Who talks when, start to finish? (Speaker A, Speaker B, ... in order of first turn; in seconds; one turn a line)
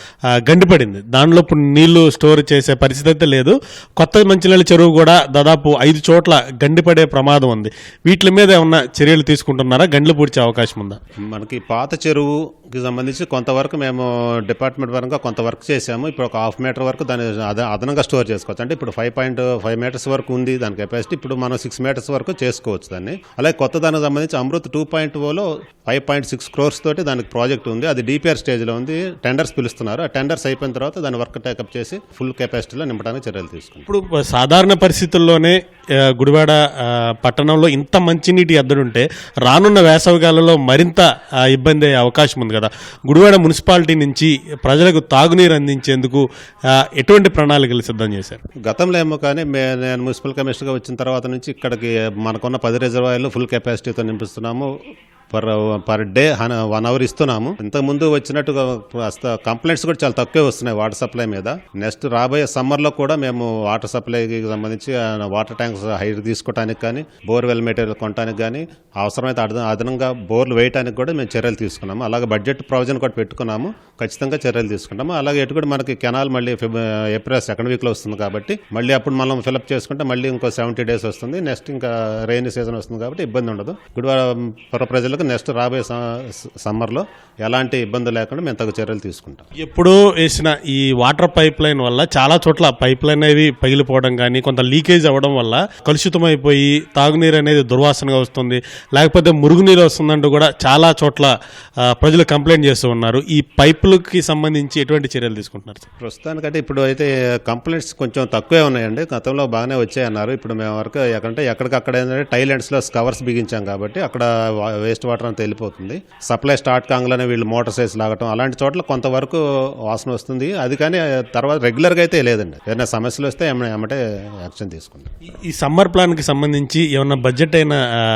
Speaker A: 0.5-11.0
Speaker B: 11.3-33.9
Speaker A: 33.9-46.2
Speaker A: 47.0-48.4
Speaker B: 48.6-54.7
Speaker B: 55.3-89.5
Speaker A: 89.6-101.3
Speaker A: 102.0-105.8
Speaker B: 106.0-125.1
Speaker A: 125.5-127.8